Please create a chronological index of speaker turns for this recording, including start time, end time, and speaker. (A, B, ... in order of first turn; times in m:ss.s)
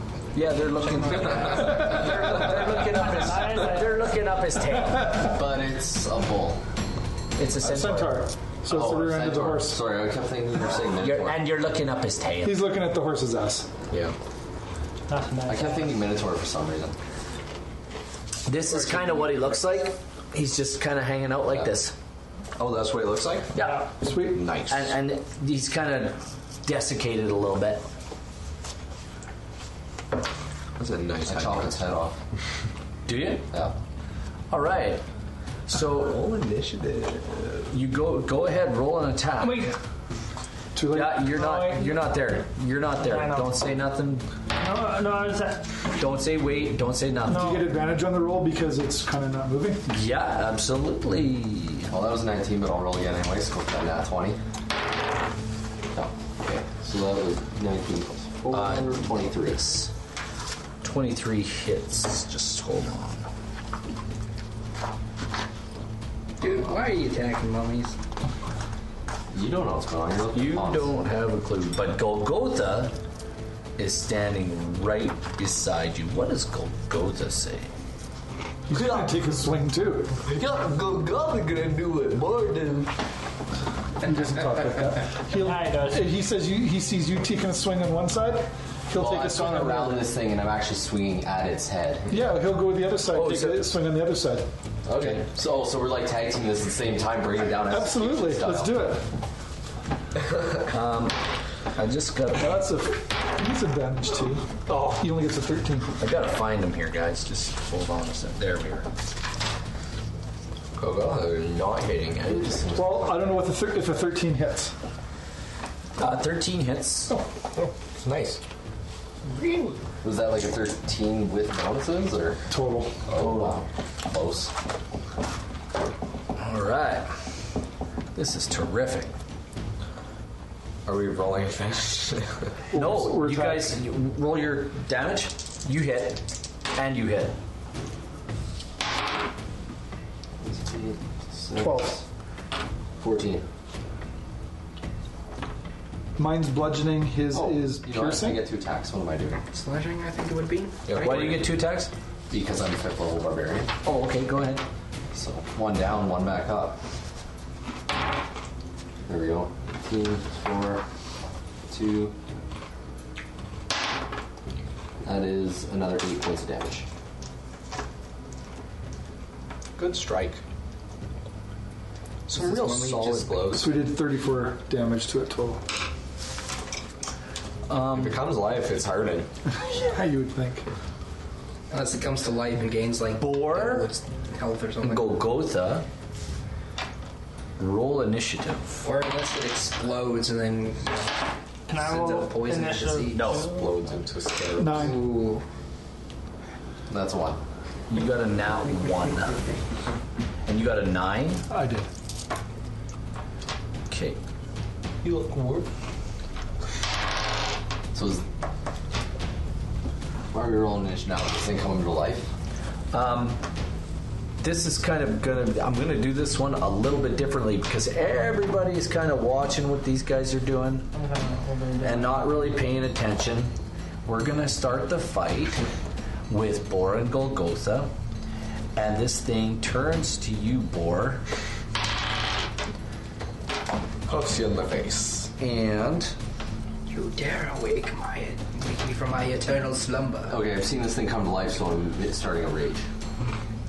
0:00.3-0:05.3 A
0:02.4-0:04.1 B
0:05.1-0:06.6 C
0:07.4-0:08.2 A
0:07.6-0:09.8 D
0:08.7-0:11.4 C
0:11.0-0:12.6 A
0:12.4-0:13.7 D
0:15.1-0:16.0 B
0:15.4-0:17.0 C
0:18.4-0:21.9 A
0:22.6-0:23.5 E
0:23.5-0:23.9 A
0:23.5-0:23.9 B
0:24.0-0:24.4 D
0:24.1-0:24.9 E
0:24.7-0:27.8 A
0:30.8-0:31.8 E
0:31.2-0:32.2 C
0:33.1-0:33.5 A
0:33.5-0:33.8 C
0:34.5-0:35.0 A
0:35.7-0:36.2 A
0:35.8-0:37.7 E
0:37.7-0:39.7 A
0:39.4-0:39.8 B
0:40.7-0:41.2 D
0:40.9-0:44.3 A
0:41.2-0:42.0 B
0:43.0-0:43.6 B
0:44.6-0:45.7 B
0:46.0-0:47.6 A
0:47.3-0:49.8 D
0:47.3-0:47.6 B
0:49.9-0:51.9 A
0:51.9-0:54.4 C
0:56.0-0:59.7 C
0:58.5-0:59.9 A
1:00.8-1:03.2 A
1:06.4-1:08.0 F
1:09.3-1:10.9 C
1:10.3-1:12.9 A
1:13.8-1:17.7 A
1:18.7-1:20.2 D
1:20.2-1:22.9 E
1:24.0-1:30.1 D
1:25.3-1:26.1 B
1:28.9-1:32.2 C
1:32.1-1:34.5 D
1:33.1-1:33.6 A
1:34.9-1:38.9 C
1:34.9-1:35.3 A
1:37.6-1:39.1 D
1:40.7-1:41.2 A
1:41.7-1:42.6 A
1:42.3-1:46.0 D
1:46.0-1:48.9 A
1:50.8-1:52.6 E
1:52.2-1:53.1 C
1:52.7-1:54.8 D
1:56.0-1:57.2 A
1:57.6-1:58.4 E
2:00.0-2:02.5 C
2:02.5-2:03.1 D
2:03.1-2:04.5 C
2:03.2-2:03.6 A
2:06.4-2:07.2 A
2:08.1-2:09.1 A
2:10.8-2:12.5 E
2:12.7-2:13.8 D
2:12.7-2:17.4 A
2:20.4-2:22.0 C
2:21.5-2:22.0 D
2:23.0-2:23.4 C
2:26.2-2:28.4 D
2:27.3-2:29.4 C
2:29.5-2:31.2 F
2:30.9-2:31.4 E
2:31.0-2:31.9 A
2:32.3-2:33.7 C
2:33.8-2:34.6 A
2:35.1-2:36.8 C
2:39.0-2:40.8 C
2:41.7-2:42.2 C
2:45.0-2:46.9 C
2:49.8-2:50.4 E
2:52.3-2:53.3 F
2:52.3-2:53.7 E
2:53.5-2:55.6 D
2:57.7-2:58.2 A
2:57.9-2:59.3 E
2:59.5-3:00.7 D
3:01.7-3:05.2 F
3:03.2-3:03.9 A
3:04.8-3:05.8 A
3:07.6-3:08.8 A
3:08.8-3:11.1 F
3:11.7-3:13.6 B
3:11.7-3:13.4 F
3:13.1-3:13.5 A
3:13.4-3:14.9 E
3:14.6-3:15.1 D
3:14.7-3:15.4 F
3:16.9-3:17.4 C
3:17.9-3:19.5 A
3:20.4-3:21.4 A
3:21.5-3:21.9 D
3:23.9-3:24.2 A
3:25.0-3:25.7 E
3:27.9-3:28.2 C
3:30.3-3:32.3 C
3:32.9-3:33.4 A
3:34.4-3:40.9 A
3:40.9-3:42.3 B
3:41.8-3:43.5 A
3:44.0-3:45.6 A
3:46.3-3:47.9 A
3:48.8-3:51.2 A
3:54.1-3:55.3 E
3:55.4-3:56.1 A
3:56.9-4:00.4 F
4:00.3-4:02.9 C